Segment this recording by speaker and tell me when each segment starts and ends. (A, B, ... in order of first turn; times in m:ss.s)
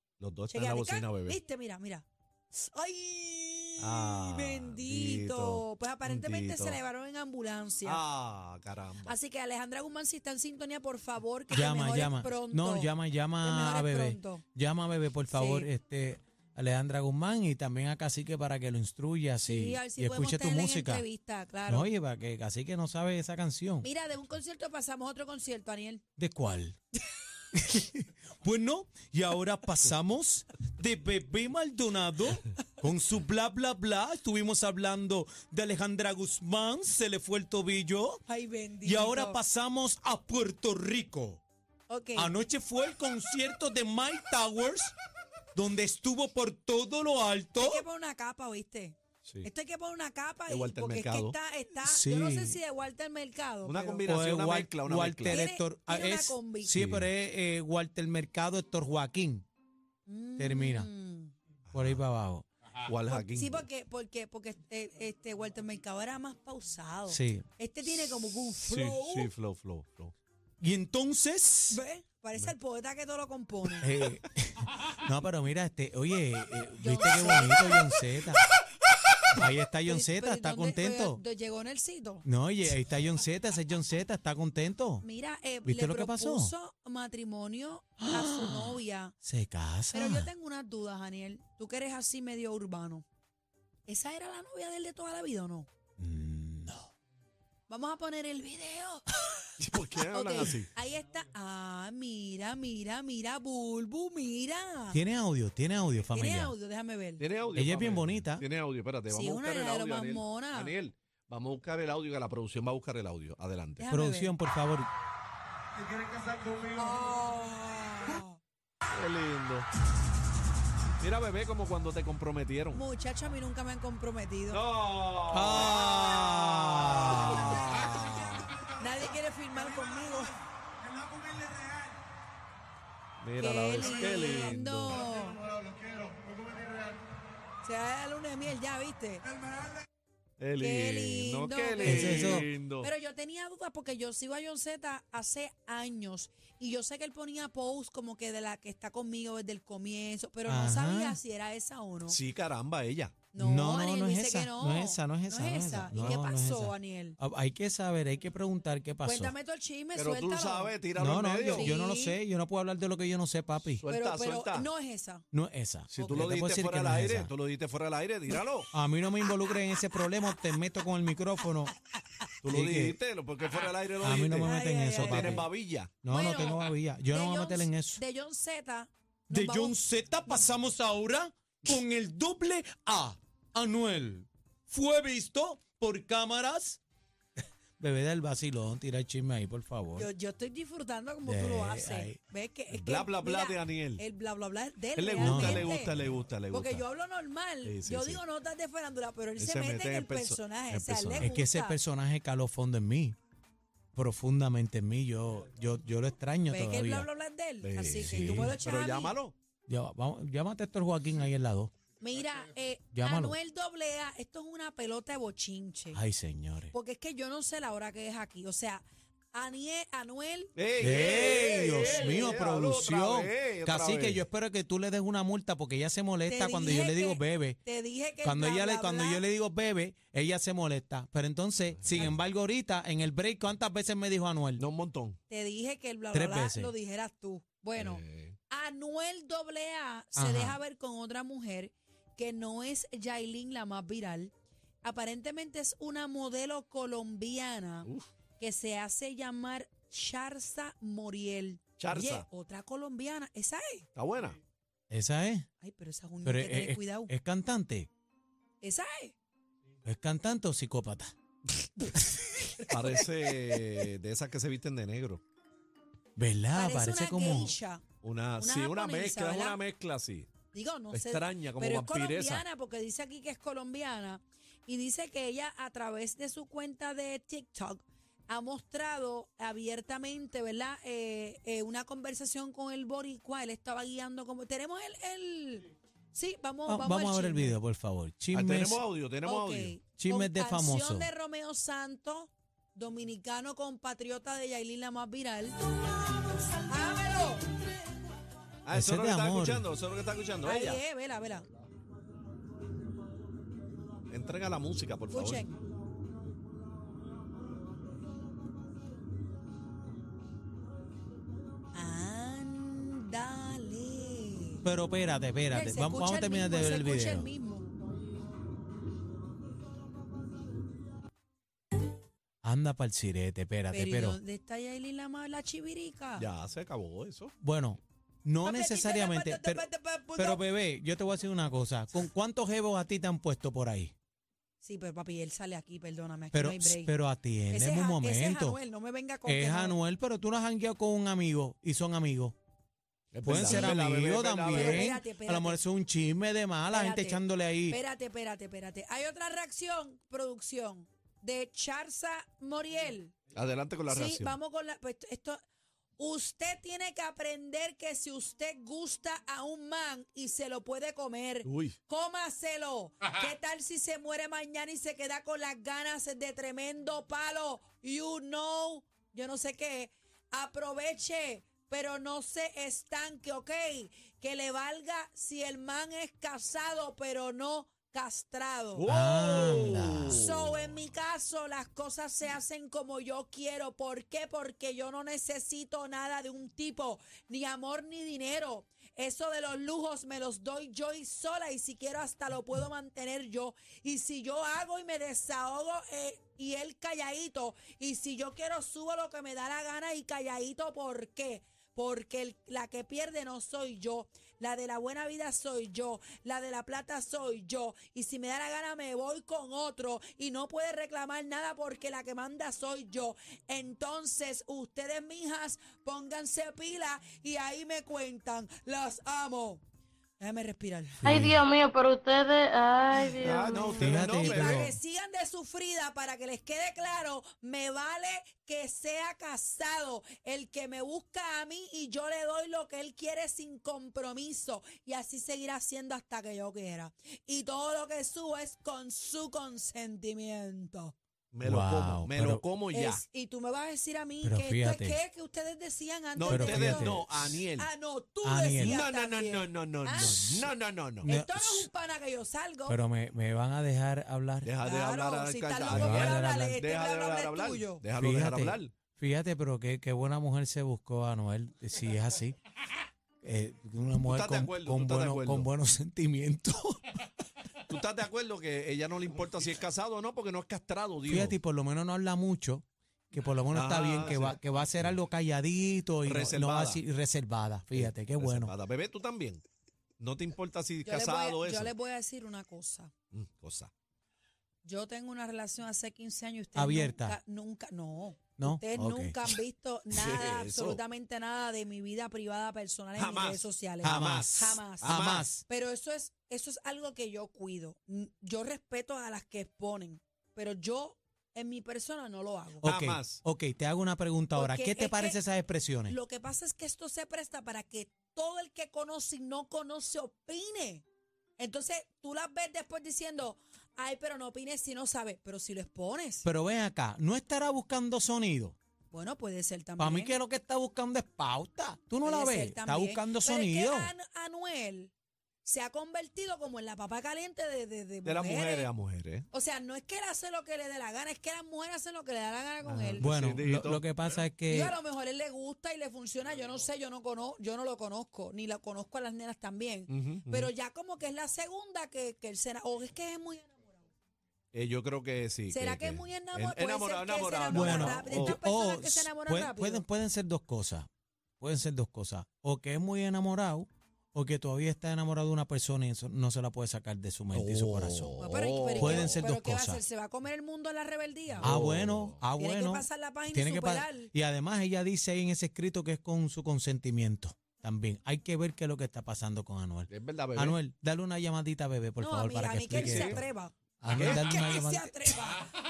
0:00.2-0:01.4 A
0:00.5-0:08.0 B
0:03.8-0:06.8 A
0:07.8-0:09.2 A
0:09.0-0:14.4 B
0:11.5-0:21.0 C
0:15.3-0:15.7 B
0:19.4-0:21.9 B
0:21.7-0:23.9 C
0:23.8-0:26.0 B
0:26.2-0:26.8 C
0:27.5-0:38.2 C
0:38.3-0:39.4 B
0:38.8-0:41.4 C
0:41.9-0:42.3 B
0:42.2-0:45.0 C
0:45.6-0:47.8 C
0:47.6-0:54.2 B
0:49.2-0:49.5 A
0:50.5-0:51.4 A
0:51.8-0:52.6 C
0:53.6-0:55.4 A
0:54.0-0:59.5 C
0:55.3-0:56.8 B
0:56.8-0:57.1 A
1:00.1-1:01.3 B
1:00.4-1:00.9 C
1:01.7-1:02.0 A
1:01.7-1:02.5 C
1:02.8-1:03.7 A
1:03.1-1:09.3 B
1:07.1-1:07.5 C
1:08.6-1:10.1 A
1:10.6-1:11.8 C
1:11.7-1:13.9 B
1:13.8-1:18.4 C
1:16.8-1:17.8 B
1:19.3-1:21.2 C
1:19.9-1:22.3 B
1:22.2-1:25.0 C
1:25.0-1:29.2 B
1:25.6-1:26.6 C
1:28.0-1:30.3 C
1:29.9-1:33.0 B
1:33.9-1:35.7 B
1:36.0-1:36.9 C
1:37.7-1:39.1 B
1:39.6-1:40.7 A
1:40.1-1:45.0 B
1:44.9-1:46.6 C
1:46.1-1:47.2 B
1:47.2-1:53.9 A
1:47.6-1:48.4 C
1:49.1-1:50.8 B
1:53.8-1:54.3 B
1:53.9-1:54.9 C
1:56.5-1:58.4 B
1:58.9-1:59.7 A
2:01.0-2:02.8 A
2:02.7-2:04.6 B
2:04.5-2:08.5 A
2:05.3-2:08.0 C
2:08.8-2:10.4 B
2:13.2-2:15.0 A
2:13.4-2:15.4 B
2:17.6-2:19.3 B
2:20.4-2:22.9 A
2:20.6-2:32.2 B
2:21.8-2:22.5 C
2:30.5-2:31.2 C
2:32.1-2:33.2 A
2:33.3-2:37.2 B
2:33.4-2:39.4 C
2:35.9-2:36.5 A
2:39.0-2:40.8 B
2:40.0-2:41.8 A
2:41.0-2:43.8 C
2:41.5-2:42.2 B
2:43.8-2:44.7 A
2:43.9-2:45.2 B
2:45.3-2:47.3 C
2:45.9-2:48.7 A
2:46.0-2:46.3 B
2:48.7-2:51.8 C
2:52.4-2:56.0 A
2:52.4-2:53.0 C
2:54.0-2:55.5 C
2:54.4-2:55.5 B
2:56.0-2:58.0 C
2:56.1-3:00.5 B
2:59.3-3:06.8 C
3:07.8-3:10.1 C
3:10.0-3:15.9 B
3:11.2-3:12.2 C
3:12.7-3:14.0 A
3:15.0-3:16.9 A
3:15.2-3:15.8 C
3:16.5-3:21.8 B
3:17.6-3:18.2 A
3:19.4-3:21.3 A
3:21.2-3:23.2 C
3:24.0-3:27.1 C
3:26.5-3:29.2 B
3:27.6-3:29.4 A
3:28.0-3:28.6 C
3:29.7-3:31.7 C
3:32.0-3:36.0 B
3:32.9-3:33.4 C
3:35.9-3:36.7 C
3:36.7-3:40.5 B
3:40.6-3:44.2 A
3:40.8-3:47.6 C
3:46.3-3:49.2 B
3:48.2-3:54.6 C
3:51.8-3:52.2 A
3:54.6-3:55.2 A
3:55.3-4:04.3 B
3:56.1-3:56.7 C
3:57.8-3:58.4 A
4:00.2-4:00.6 C
4:04.8-4:07.9 B
4:08.4-4:13.9 B
4:11.8-4:12.3 A
4:14.0-4:14.4 A
4:14.9-4:15.5 C
4:15.6-4:17.1 B
4:16.2-4:17.9 C
4:18.6-4:19.2 B
4:19.8-4:21.1 C
4:22.4-4:23.6 B
4:22.7-4:25.2 A
4:26.2-4:27.6 C
4:26.5-4:27.8 B
4:28.0-4:30.3 A
4:28.4-4:29.6 B
4:30.5-4:47.6 B
4:30.9-4:32.4 A
4:46.7-4:48.8 C
4:48.3-4:49.8 A
4:49.2-4:55.6 B
4:50.0-4:51.1 C
4:56.7-4:57.5 B
4:58.7-5:00.8 A
4:58.7-4:59.7 C
5:00.4-5:01.5 B
5:04.1-5:05.4 A
5:05.1-5:05.6 B
5:11.7-5:14.6 B
5:14.6-5:17.3 C
5:15.5-5:17.7 B
5:22.4-5:24.2 C
5:23.7-5:26.3 B
5:26.2-5:27.3 A
5:27.4-5:33.9 C
5:28.4-5:30.4 B
5:34.6-5:36.9 B
5:36.3-5:38.6 C
5:37.5-5:39.8 B
5:39.3-5:42.4 C
5:43.1-5:45.0 A
5:43.2-5:47.8 C
5:43.4-5:43.8 B
5:44.5-5:45.6 B
5:46.7-5:53.2 B
5:53.3-5:54.4 A
5:53.9-5:55.4 B
5:56.0-6:18.9 B
6:01.4-6:01.8 A
6:18.8-6:20.5 A
6:18.8-6:20.2 C
6:20.1-6:59.6 B
7:00.2-7:01.0 B
7:01.0-7:01.4 C
7:01.0-7:04.0 D
7:03.2-7:04.7 A
7:03.6-7:04.8 C
7:03.8-7:21.0 B
7:21.3-7:23.0 A
7:21.4-7:22.4 C
7:22.7-7:30.5 B
7:24.2-7:25.0 C
7:26.2-7:27.7 A
7:26.3-7:27.1 C
7:28.2-7:28.8 C
7:28.6-7:31.1 A
7:30.0-7:30.2 C
7:31.0-7:32.8 B
7:31.0-7:31.7 C
7:32.7-7:34.5 C
7:34.4-7:38.7 A
7:34.6-7:37.8 B
7:35.6-7:36.6 C
7:38.0-7:42.4 C
7:43.2-7:47.0 C
7:44.0-7:45.5 A
7:47.7-7:51.4 A
7:51.1-7:58.5 C
7:53.5-7:55.0 A
7:56.0-7:56.8 A
7:57.7-7:59.4 A
8:00.0-8:01.7 A
8:00.8-8:02.9 B
8:03.1-8:03.7 A
8:04.6-8:22.6 B
8:06.6-8:07.2 C
8:08.4-8:09.2 C
8:09.9-8:10.8 A
8:13.0-8:15.3 A
8:13.8-8:15.4 C
8:22.6-8:26.0 C
8:22.6-8:23.2 A
8:24.4-8:25.2 B
8:25.9-8:30.8 B
8:31.4-8:36.3 B
8:36.2-8:38.6 C
8:38.9-8:40.2 B
8:39.8-8:43.9 C
8:42.0-8:44.9 B
8:45.4-8:48.7 B
8:48.0-8:49.3 A
8:49.3-8:53.1 B
8:52.6-8:53.8 A
8:53.0-8:54.8 C
8:54.5-9:03.8 B
8:59.9-9:00.5 A
9:04.5-9:08.4 A
9:05.5-9:09.9 B
9:07.5-9:10.9 C
9:11.4-9:18.1 C
9:17.3-9:19.2 A
9:18.2-9:21.6 B
9:18.8-9:19.8 C
9:21.4-9:22.2 A
9:21.4-9:33.2 C
9:22.4-9:24.1 B
9:29.9-9:30.6 A
9:32.0-9:35.5 B
9:32.7-9:33.2 A
9:33.8-9:35.1 C
9:33.8-9:34.4 A